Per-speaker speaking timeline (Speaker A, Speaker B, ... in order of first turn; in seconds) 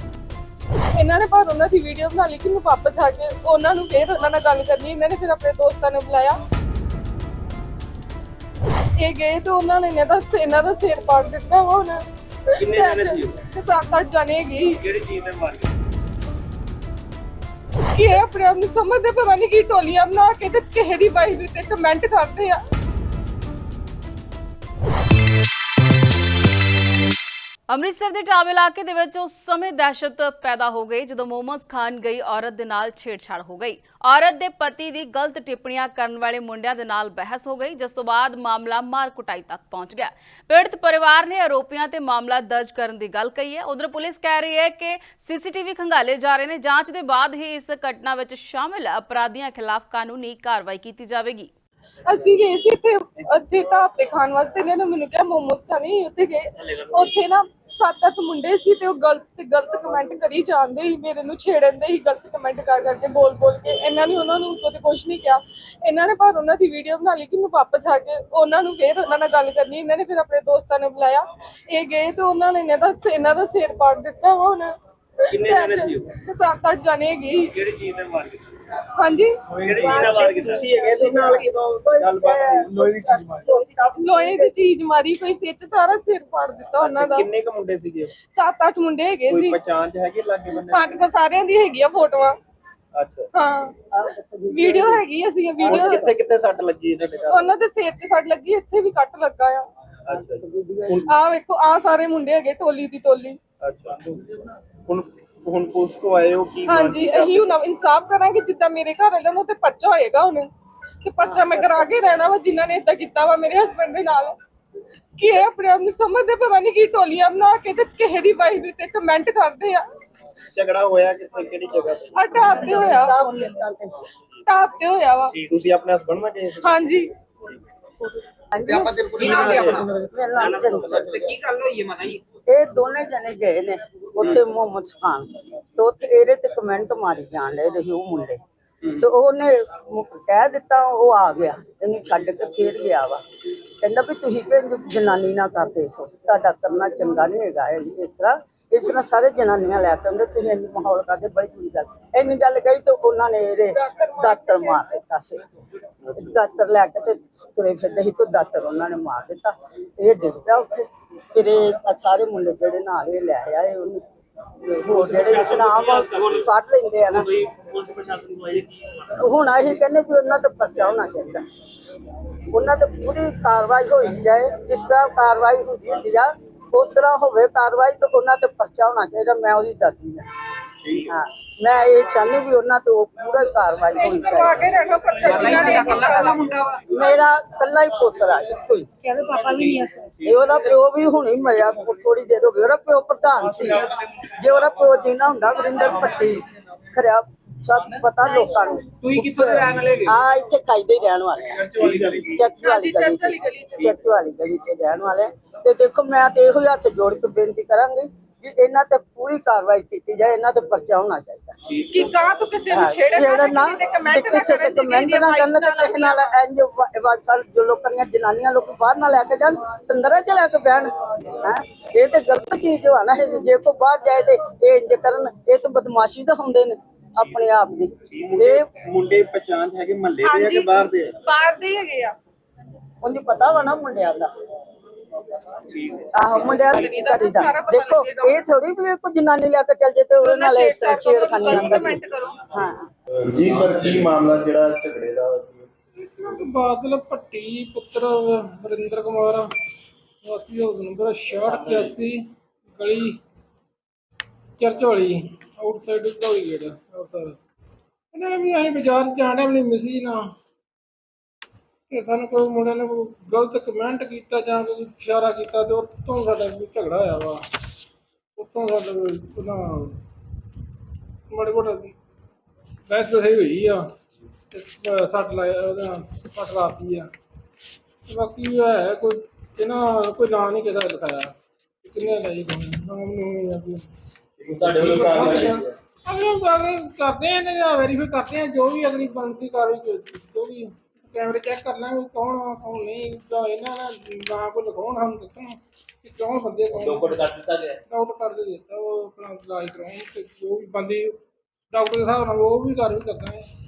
Speaker A: 1.0-6.4, 9.0-12.0, 12.6-14.8, 17.9-22.6, 52.0-74.7, 75.3-77.5, 79.0-81.5, 84.0-87.3, 88.3-89.6, 90.7-92.3, 93.3-93.7, 94.5-96.1, 97.3-99.7, 101.0-103.4, 106.7-110.5, 111.0-114.3, 115.2-119.8, 122.1-123.1, 124.5-125.4, 126.6-127.1, 153.7-154.9, 183.9-186.4, 202.4-203.9, 211.8-216.2, 230.2-232.1, 236.7-238.4, 240.2-242.4
Speaker B: 12.6-13.4, 14.7-15.7, 56.7-57.2, 75.3-76.1, 77.5-78.4, 79.5-80.7, 129.1-132.2, 164.9-166.5, 167.1-168.8, 185.2-186.8, 189.2-190.6, 193.4-193.9, 197.8-198.0, 199.0-200.3, 201.4-202.4, 235.7-236.8, 251.4-251.9, 284.6-285.5, 296.8-297.8
Speaker C: 27.7-51.5
Speaker D: 79.8-84.5, 93.9-95.0, 100.1-101.0, 122.4-124.0, 128.5-131.3, 132.5-138.4, 138.9-143.2, 143.8-155.4, 156.2-164.0, 164.7-167.3, 169.2-171.4, 172.5-180.2, 181.1-184.7, 185.2-186.4, 186.9-193.8, 194.4-211.5, 212.7-228.7, 233.0-234.3, 236.1-242.0, 242.5-242.9
Speaker E: 80.5-83.1, 86.8-88.1, 89.3-91.0, 92.9-93.3, 95.6-97.5, 100.1-101.0, 103.6-104.2, 104.8-107.5, 120.5-122.4, 125.5-126.9, 129.4-129.8, 156.0-156.4, 228.1-231.1, 243.2-245.7, 284.4-285.7
Speaker F: 246.2-249.5, 250.2-253.2, 254.6-257.4, 258.1-260.3, 261.9-267.4, 268.4-270.0, 271.3-271.9, 272.9-273.9, 274.5-277.1, 278.1-281.3, 281.8-283.9, 284.8-301.1, 301.7-303.4